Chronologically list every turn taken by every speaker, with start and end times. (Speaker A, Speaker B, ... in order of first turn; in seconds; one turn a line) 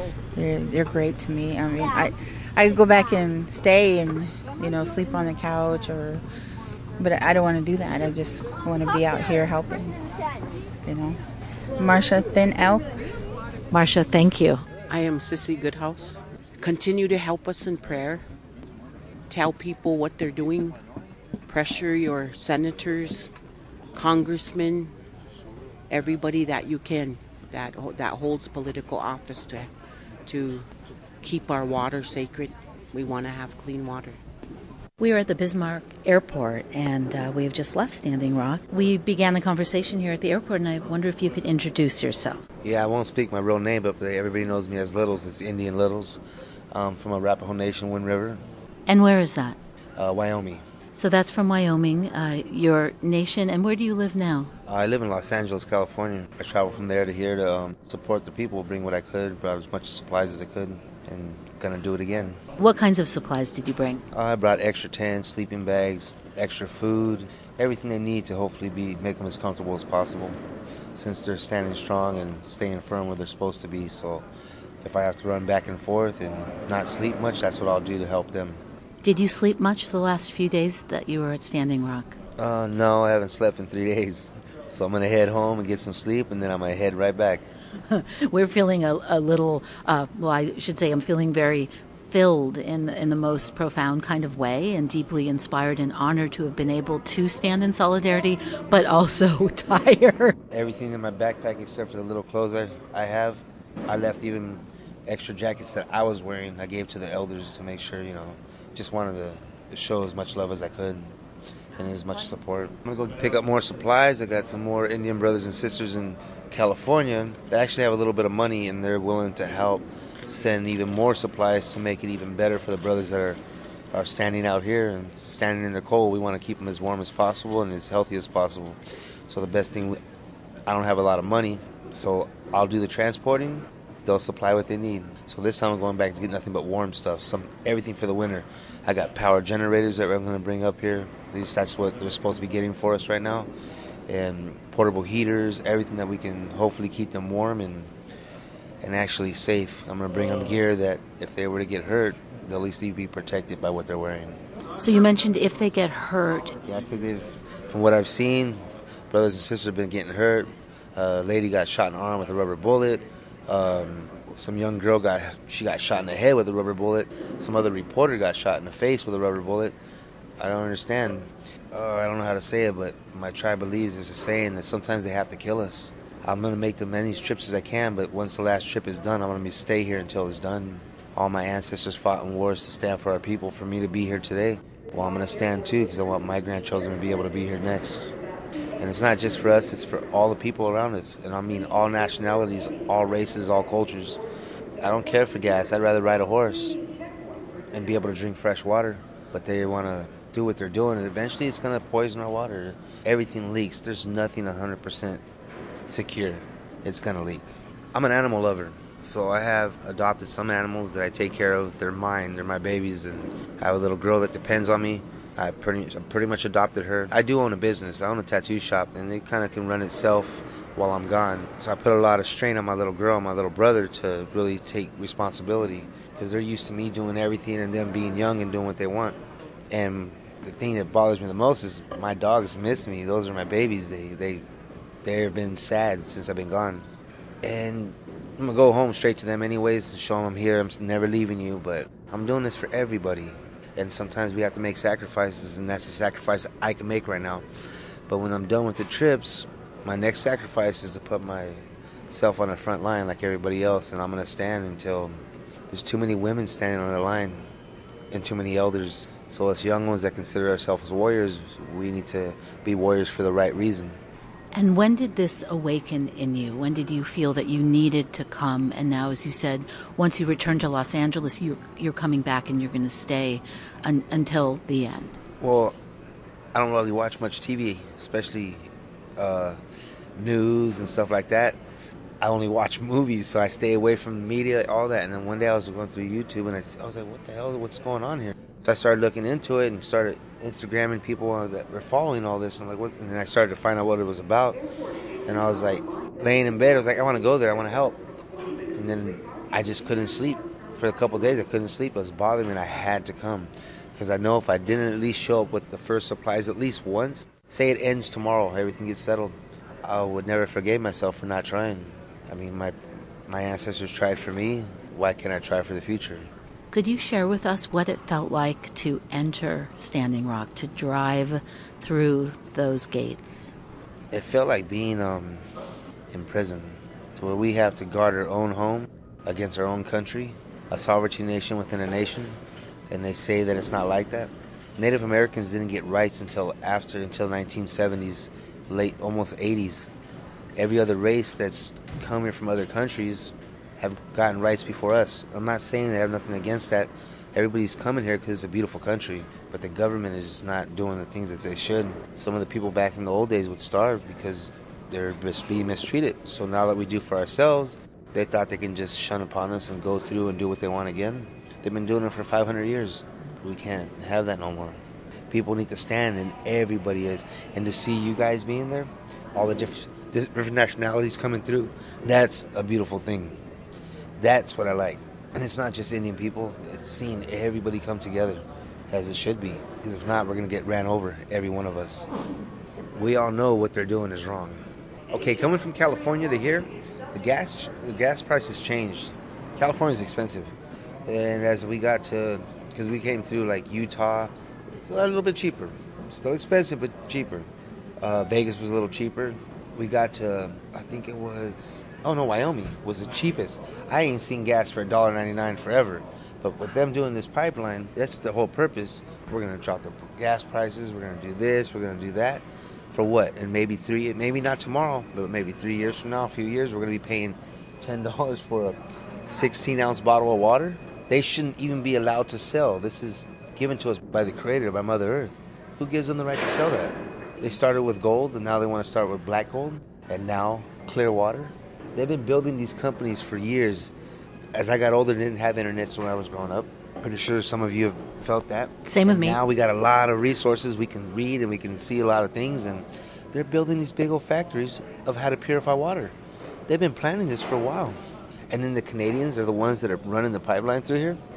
Speaker A: 0.3-6.2
Speaker A: 7.0-10.0
Speaker A: 10.8-11.2
Speaker A: 11.8-13.0
Speaker B: 13.7-14.7
Speaker C: 14.9-18.2
Speaker C: 19.3-20.8
Speaker C: 21.4-23.3
Speaker C: 23.9-24.9
Speaker C: 25.9-29.7
Speaker C: 30.2-30.7
Speaker C: 31.2-34.2
Speaker B: 35.0-42.4
Speaker D: 42.6-46.2
Speaker D: 46.7-48.4
Speaker B: 48.9-49.6
Speaker D: 50.0-50.6
Speaker B: 50.9-54.5
Speaker D: 54.7-62.4
Speaker B: 62.6-64.0
Speaker D: 64.1-70.4
Speaker D: 70.9-74.2
Speaker D: 74.8-78.6
Speaker B: 79.0-82.2
Speaker D: 82.4-87.5
Speaker B: 87.9-100.3
Speaker D: 100.5-111.1
Speaker D: 111.8-123.4
Speaker D: 123.9-130.0
Speaker D: 130.7-143.5
Speaker D: 144.1-147.9
Speaker D: 148.8-154.4
Speaker B: 154.8-156.5
Speaker D: 156.7-158.6
Speaker D: 159.1-169.8
Speaker D: 170.4-188.1
Speaker D: 188.8-194.2
Speaker D: 194.8-196.8
Speaker D: 197.7-205.2
Speaker D: 205.9-229.2
Speaker D: 229.7-234.4
Speaker D: 235.0-236.8
Speaker D: 237.4-247.4
Speaker D: 248.1-255.2
Speaker D: 255.7-257.4
Speaker D: 258.1-264.0
Speaker B: 264.5-275.2
Speaker D: 275.4-275.8
Speaker D: 276.5-279.6
Speaker D: 280.1-281.6
Speaker D: 282.2-294.6
Speaker D: 295.2-298.0
Speaker D: 298.7-309.3
Speaker D: 309.8-312.7
Speaker D: 313.3-316.3
Speaker B: 316.7-323.5
Speaker D: 324.1-325.4
Speaker D: 326.1-332.4
Speaker D: 332.9-339.9
Speaker D: 340.6-364.8
Speaker D: 365.3-373.4
Speaker D: 374.2-382.1
Speaker D: 382.9-390.5
Speaker D: 391.1-397.5
Speaker D: 398.0-433.9
Speaker D: 434.5-446.1
Speaker B: 438.9-439.4
Speaker D: 446.7-448.0
Speaker D: 448.5-451.2